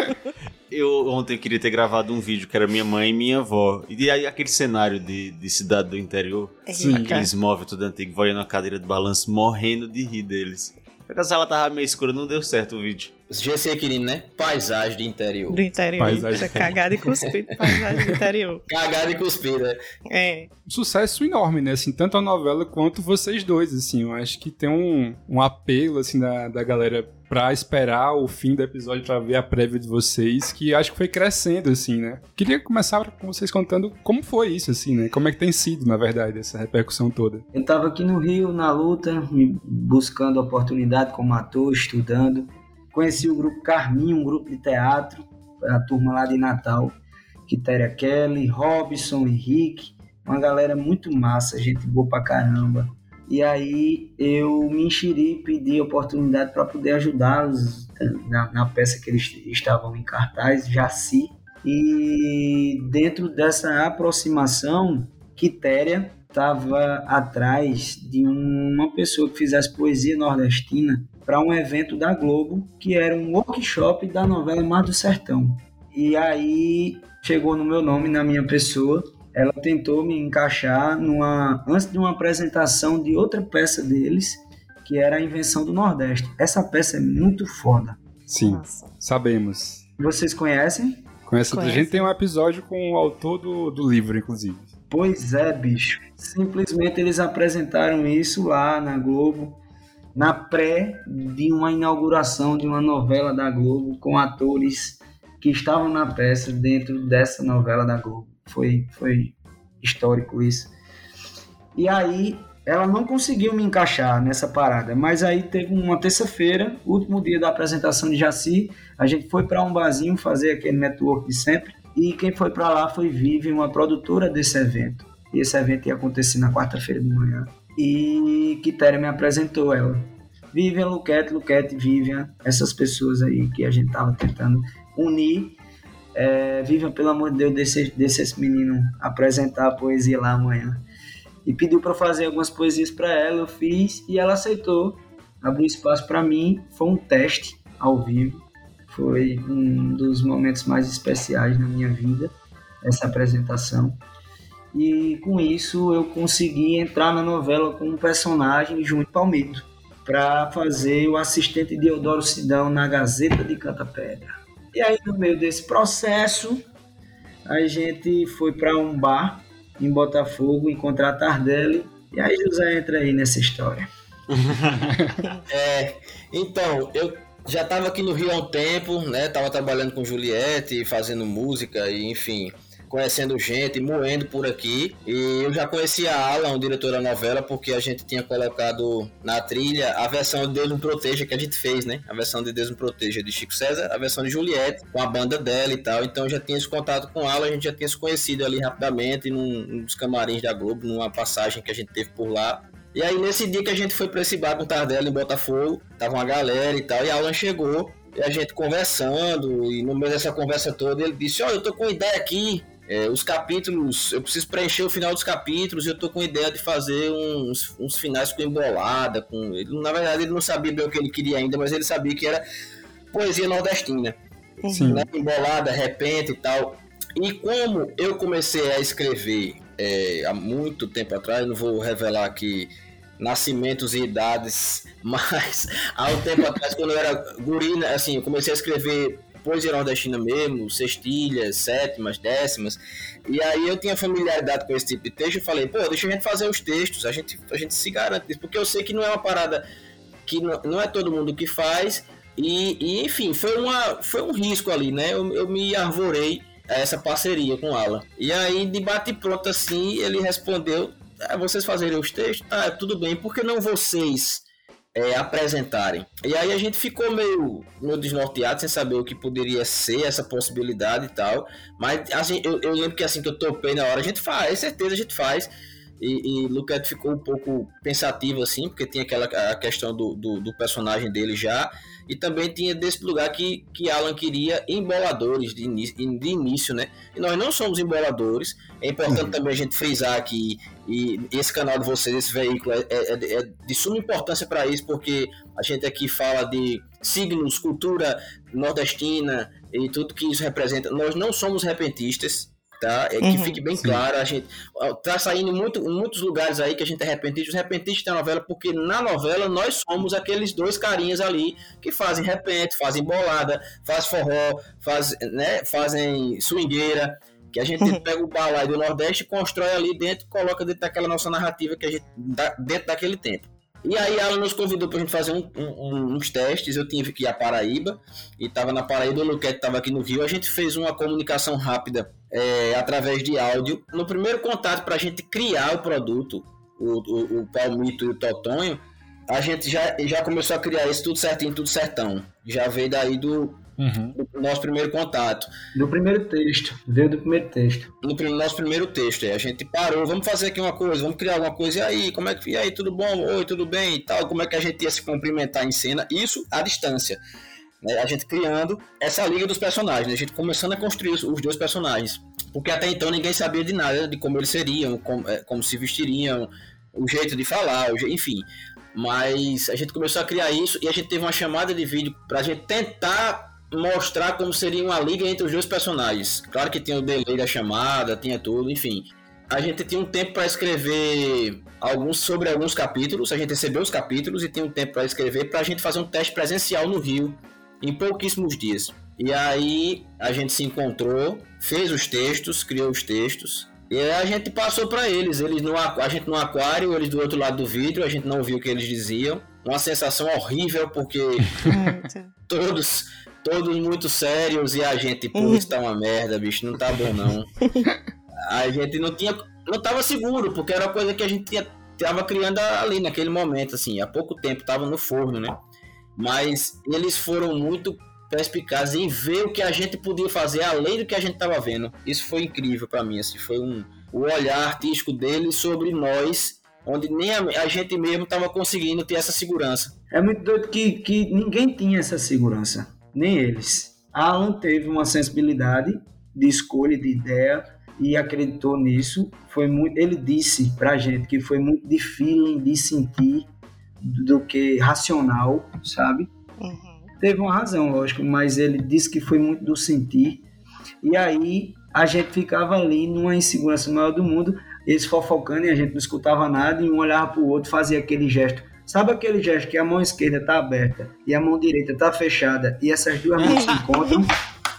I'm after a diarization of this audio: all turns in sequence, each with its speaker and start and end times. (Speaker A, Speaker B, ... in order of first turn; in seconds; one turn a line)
Speaker A: 0.7-13.1
Speaker B: 6.7-7.3
Speaker C: 6.7-7.2
Speaker D: 13.3-15.6
Speaker B: 15.5-18.6
Speaker C: 16.0-16.8
Speaker D: 18.7-19.8
Speaker B: 20.1-20.5
Speaker C: 20.7-37.5
Speaker E: 37.5-47.0
Speaker E: 47.5-88.0
Speaker C: 88.3-89.8
Speaker B: 88.4-88.9
Speaker E: 90.0-91.0
Speaker C: 91.3-94.7
Speaker B: 91.5-92.1
Speaker E: 94.9-99.6
Speaker E: 100.2-110.7
Speaker E: 111.8-135.6
Speaker E: 136.2-140.8
Speaker E: 141.4-154.0
Speaker E: 154.7-166.6
Speaker E: 167.5-173.9
Speaker A: 174.3-174.8
Speaker D: 175.5-222.4
Speaker D: 223.1-224.2
Speaker B: 224.6-225.1
Speaker C: 224.7-225.0
Speaker D: 224.9-249.6
Speaker D: 250.3-343.6
Speaker C: 289.1-289.4
Speaker B: 303.2-303.6
Speaker C: 343.8-344.2
Speaker D: 344.2-345.5
Speaker E: 345.7-347.9
Speaker D: 348.0-357.2
Speaker D: 357.8-401.5
Speaker B: 401.6-402.3
Speaker D: 402.5-407.5
Speaker B: 405.4-405.7
Speaker D: 408.5-415.6
Speaker D: 416.2-429.9
Speaker E: 430.1-443.5
Speaker E: 444.0-446.3
Speaker B: 446.6-447.1
Speaker E: 447.2-450.4
Speaker E: 451.0-464.3